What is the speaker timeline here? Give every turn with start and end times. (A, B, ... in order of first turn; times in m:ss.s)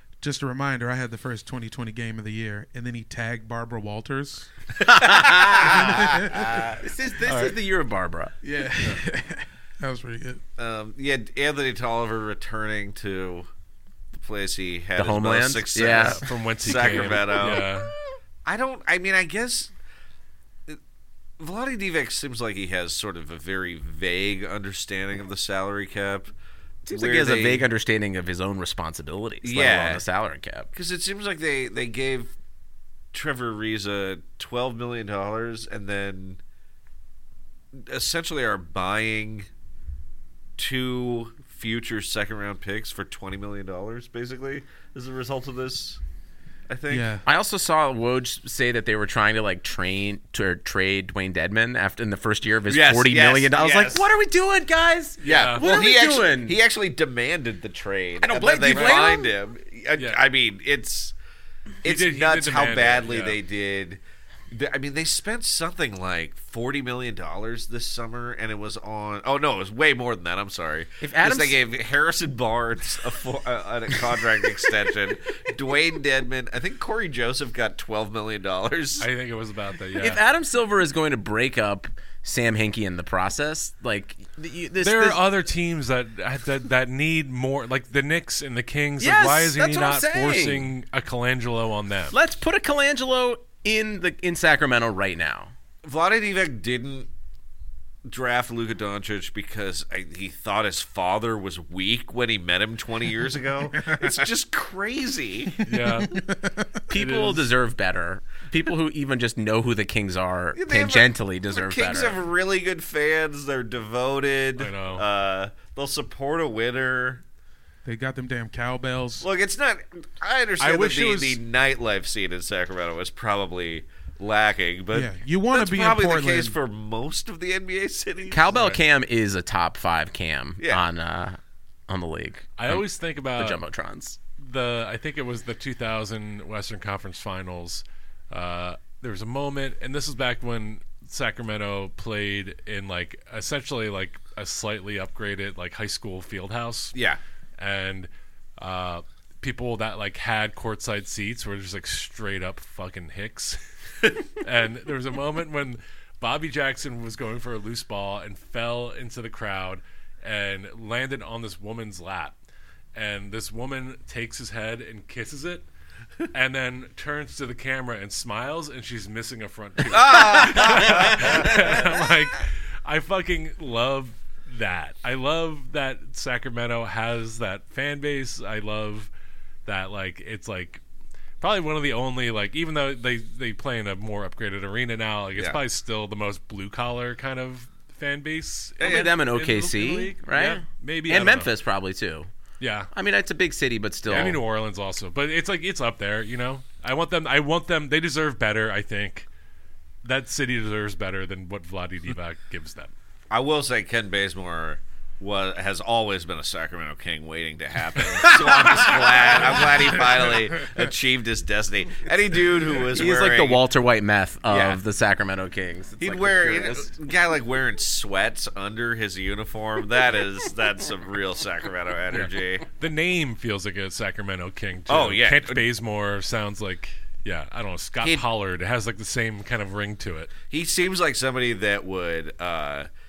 0:00.2-0:04.5 A
0:04.8-0:06.2 B
0:05.0-0:06.8 C
0:05.6-0:06.7 A
0:06.8-0:08.3 B
0:07.2-0:07.5 D
0:08.4-0:10.4 A
0:10.6-0:13.5 C
0:14.1-0:17.7 C
0:15.0-0:16.2 B
0:15.8-0:17.9 D
0:18.4-0:19.7 C
0:21.4-0:26.3 C
0:26.8-0:30.7 B
0:26.9-0:27.6 C
0:29.4-0:30.0 C
0:30.7-0:32.3 C
0:33.1-0:36.4 C
0:37.7-0:39.5 C
0:40.6-0:46.0 C
0:46.7-0:47.1 C
0:46.9-0:47.2 A
0:47.2-0:56.6 B
0:52.7-0:54.1 C
0:55.2-1:01.1 C
0:55.2-0:55.6 D
0:58.2-0:59.3 B
0:58.7-0:59.0 D
1:00.0-1:00.2 D
1:01.8-1:19.1 C
1:01.8-1:03.4 D
1:11.0-1:11.6 B
1:19.0-1:20.2 D
1:20.0-1:25.2 B
1:24.8-1:32.1 D
1:29.0-1:30.7 B
1:32.1-1:35.5 B
1:35.8-1:37.1 C
1:38.0-1:45.6 C
1:45.6-1:46.7 A
1:45.6-1:46.2 D
1:46.9-1:52.2 B
1:46.9-1:47.5 D
1:50.5-1:57.2 C
1:54.6-1:55.0 D
1:57.8-1:59.2 A
1:59.2-2:08.6 C
2:00.6-2:01.4 D
2:04.9-2:06.6 A
2:08.3-2:12.8 B
2:10.6-2:10.8 C
2:12.6-2:13.6 D
2:13.4-2:14.2 B
2:14.4-2:27.0 D
2:26.9-2:27.2 C
2:27.6-2:42.3 D
2:42.9-2:45.6 D
2:46.3-2:59.1 D
2:49.9-2:51.8 C
2:50.5-2:51.3 B
2:59.6-3:00.8 D
3:01.4-3:11.5 D
3:08.8-3:09.2 C
3:08.8-3:12.3 B
3:12.6-3:12.9 D
3:12.9-3:14.4 B
3:14.1-3:14.4 C
3:14.1-3:19.3 D
3:20.0-3:22.9 D
3:23.3-3:33.6 C
3:32.9-3:36.9 B
3:34.5-3:34.8 C
3:36.0-3:42.6 C
3:42.1-3:50.3 D
3:44.9-3:45.6 C
3:50.5-3:52.9 C